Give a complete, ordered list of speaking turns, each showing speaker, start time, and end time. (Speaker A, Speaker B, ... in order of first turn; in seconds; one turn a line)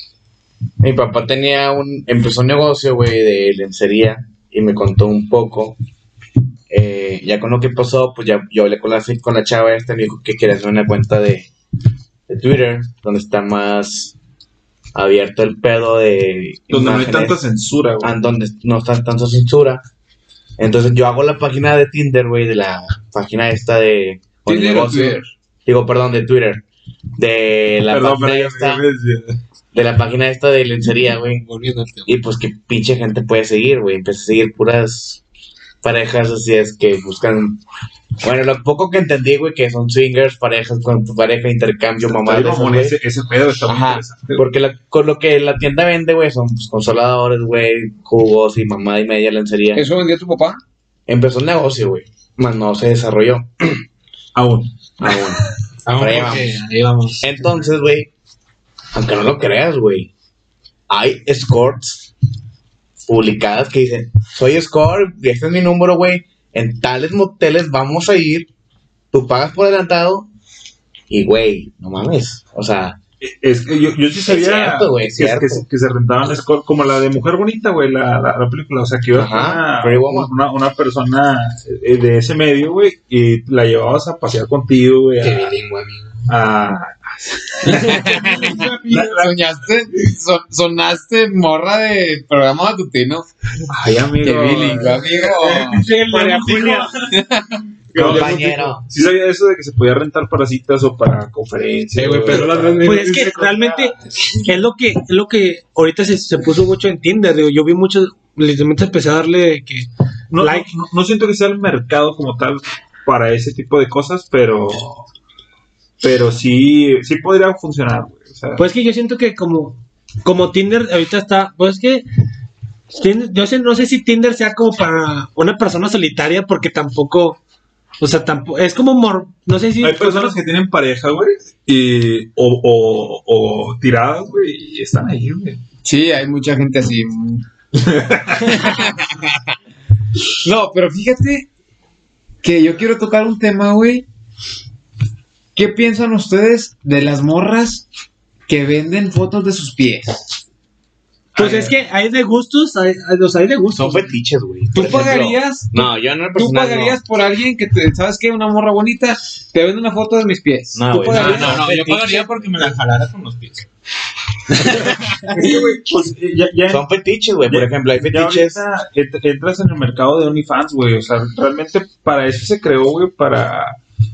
Speaker A: 0.8-5.8
Speaker A: 6.7-11.5
Speaker A: 12.3-14.2
Speaker A: 14.9-17.4
Speaker B: 16.7-18.1
Speaker A: 18.0-19.8
Speaker A: 20.6-26.6
Speaker C: 24.5-25.3
Speaker A: 27.2-28.8
Speaker B: 27.9-29.4
Speaker A: 29.7-31.4
Speaker D: 31.4-32.2
Speaker A: 32.1-35.2
Speaker A: 35.8-37.6
Speaker A: 38.2-43.0
Speaker B: 42.0-44.4
Speaker A: 43.7-49.9
Speaker C: 49.8-50.6
Speaker A: 51.1-53.8
Speaker B: 54.4-54.7
Speaker A: 55.0-56.6
Speaker D: 55.9-57.3
Speaker A: 57.2-58.1
Speaker A: 58.9-60.1
Speaker A: 60.9-62.1
Speaker A: 63.0-68.5
Speaker A: 69.1-70.3
Speaker A: 71.1-73.0
Speaker B: 73.2-85.6
Speaker A: 74.3-75.6
Speaker A: 79.1-80.3
Speaker D: 85.2-86.2
Speaker B: 86.3-89.3
Speaker D: 87.7-89.3
Speaker C: 87.7-93.3
Speaker B: 93.7-95.1
Speaker C: 94.2-95.9
Speaker D: 95.0-97.0
Speaker E: 96.1-96.9
Speaker C: 97.1-98.3
Speaker B: 97.9-102.9
Speaker A: 98.0-98.8
Speaker D: 98.0-98.5
Speaker D: 102.0-103.9
Speaker E: 102.8-110.7
Speaker B: 110.3-115.1
Speaker B: 116.0-118.6
Speaker E: 118.6-122.0
Speaker E: 122.9-127.4
Speaker E: 128.0-130.4
Speaker B: 129.8-135.6
Speaker C: 135.8-137.5
Speaker B: 137.8-138.7
Speaker C: 138.4-139.5
Speaker C: 140.4-141.5
Speaker C: 142.4-144.1
Speaker C: 145.6-147.9
Speaker C: 148.5-150.3
Speaker E: 151.3-154.1
Speaker A: 153.7-157.0
Speaker C: 154.7-162.4
Speaker A: 160.7-162.0
Speaker D: 160.9-163.7
Speaker D: 164.6-164.9
Speaker B: 165.3-166.9
Speaker A: 166.7-168.6
Speaker B: 167.4-173.8